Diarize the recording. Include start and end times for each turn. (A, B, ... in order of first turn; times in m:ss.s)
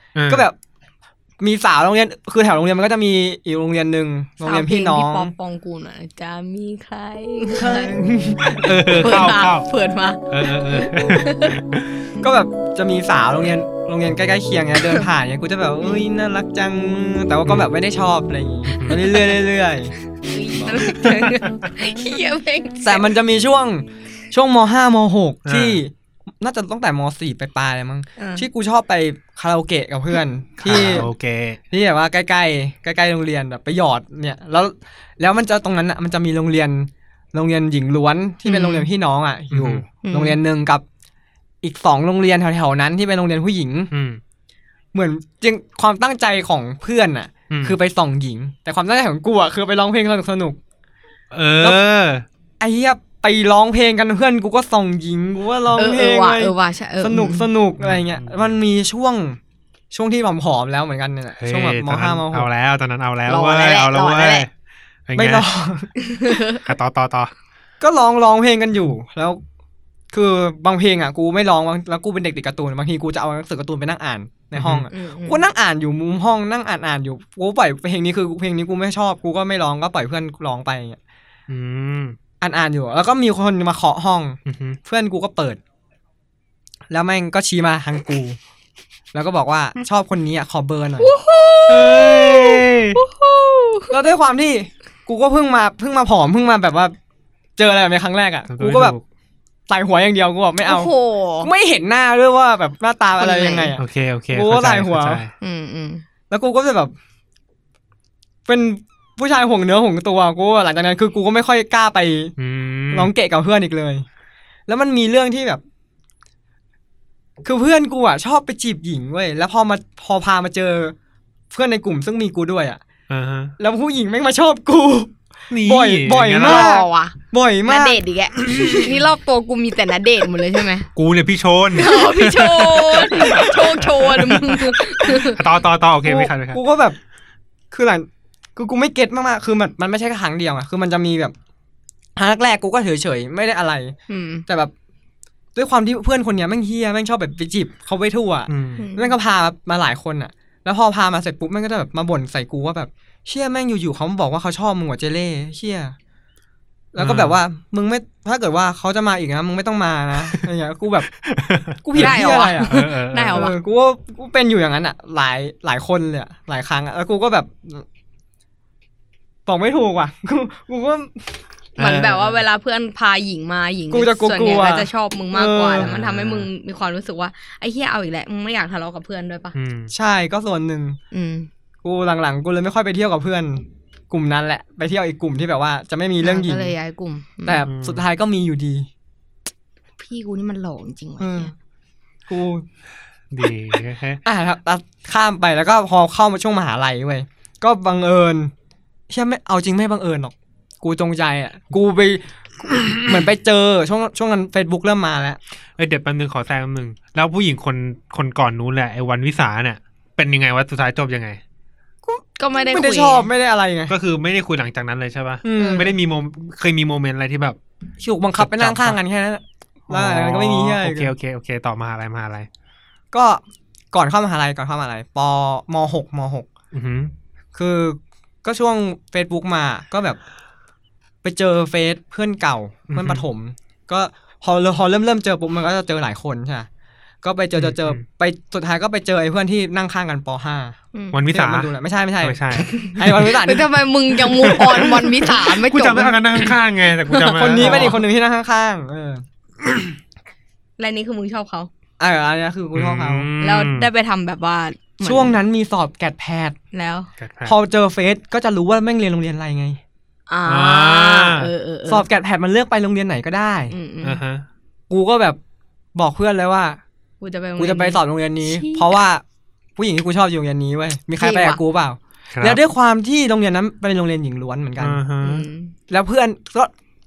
0:00.2-0:00.5 A
0:00.3-0:00.6 B
0:01.4-0:05.3 B
0:04.4-0:08.0 C
0:07.5-0:08.8 B
0:08.5-0:09.7 A
0:08.9-0:11.6 C
0:10.3-0:12.1 A
0:12.2-0:19.9 B
0:17.5-0:17.7 A
0:18.7-0:19.2 A
0:20.2-0:23.1 C
0:22.8-0:31.1 B
0:25.4-0:25.8 A
0:28.2-0:28.4 C
0:30.6-0:31.6 A
0:31.7-0:40.8 B
0:38.4-0:38.9 C
0:39.5-0:39.8 A
0:40.0-0:40.4 C
0:41.6-0:43.9 B
0:43.9-0:44.2 A
0:44.9-0:50.6 B
0:47.5-0:47.8 A
0:51.3-0:52.2 A
0:52.6-0:59.4 B
0:55.8-0:57.5 C
0:57.8-0:58.6 A
0:59.9-1:02.5 B
1:01.4-1:04.5 A
1:03.3-1:04.5 C
1:05.1-1:05.5 A
1:05.2-1:06.0 B
1:06.0-1:06.6 C
1:06.6-1:07.3 A
1:07.8-1:09.4 B
1:10.1-1:21.0 B
1:14.6-1:14.9 A
1:14.9-1:15.4 C
1:21.5-1:22.2 A
1:22.4-1:25.6 B
1:24.5-1:24.8 A
1:26.9-1:28.4 B
1:29.1-1:31.1 B
1:31.0-1:33.9 C
1:31.7-1:33.0 A
1:33.9-1:36.9 B
1:37.6-1:39.0 B
1:38.5-1:39.0 A
1:39.7-1:45.2 B
1:40.6-1:41.5 C
1:43.2-1:43.7 C
1:43.8-1:45.3 A
1:45.4-1:46.0 C
1:46.3-1:46.9 B
1:48.5-1:52.4 B
1:52.4-1:53.1 A
1:52.9-1:54.0 B
1:54.7-1:55.6 B
1:57.4-2:01.0 B
2:01.5-2:02.8 B
2:03.1-2:03.5 A
2:03.6-2:08.8 B
2:05.5-2:06.7 A
2:06.4-2:10.9 C
2:08.5-2:08.8 A
2:11.0-2:16.6 A
2:11.7-2:15.4 C
2:16.0-2:17.0 B
2:17.7-2:21.3 B
2:22.2-2:24.7 B
2:24.1-2:24.4 C
2:25.6-2:36.0 B
2:28.5-2:28.8 A
2:28.8-2:29.2 C
2:36.9-2:41.1 B
2:37.0-2:37.4 A
2:41.2-2:43.5 A
2:41.8-2:42.7 B
2:42.0-2:43.6 C
2:43.3-2:47.9 B
2:49.5-2:51.3 B
2:51.8-2:59.6 C
2:51.8-2:52.4 A
2:53.9-2:55.9 B
2:55.8-2:56.5 A
2:59.6-2:59.9 A
2:59.9-3:01.0 B
3:01.1-3:01.5 C
3:01.8-3:06.7 B
3:06.2-3:07.6 C
3:07.4-3:08.9 B
3:07.7-3:08.0 A
3:10.0-3:11.5 C
3:11.2-3:11.5 B
3:12.3-3:12.6 B
3:13.3-3:14.2 A
3:14.2-3:18.5 B
3:19.1-3:25.4 B
3:25.8-3:31.4 A
3:32.1-3:33.9 B
3:32.4-3:33.3 C
3:33.9-3:37.6 A
3:35.4-3:35.9 B
3:38.0-3:41.1 B
3:38.4-3:39.0 A
3:39.9-3:42.5 A
3:43.1-3:46.5 B
3:46.7-3:47.1 A
3:47.6-3:50.2 B
3:51.2-3:56.7 B
3:52.9-3:53.2 A
3:57.2-4:00.8 B
3:57.6-3:58.0 A
4:01.1-4:03.2 A
4:01.3-4:03.7 B
4:02.7-4:06.5 C
4:04.1-4:08.0 A
4:07.1-4:08.0 C
4:07.4-4:09.2 B
4:10.8-4:11.7 C
4:12.0-4:13.3 B
4:12.7-4:13.9 A
4:13.4-4:15.4 C
4:15.0-4:16.6 B
4:16.7-4:17.1 C
4:17.2-4:17.6 A
4:17.4-4:19.8 B
4:20.3-4:22.1 C
4:20.5-4:21.5 A
4:21.9-4:23.7 B
4:23.7-4:24.2 C
4:24.0-4:24.4 A
4:24.9-4:25.4 B
4:26.0-4:26.8 B
4:27.2-4:29.0 C
4:27.6-4:29.2 B
4:29.8-4:35.0 B
4:31.2-4:31.6 C
4:32.3-4:32.6 A
4:34.8-4:35.5 A
4:35.2-4:35.7 C
4:35.9-4:36.7 B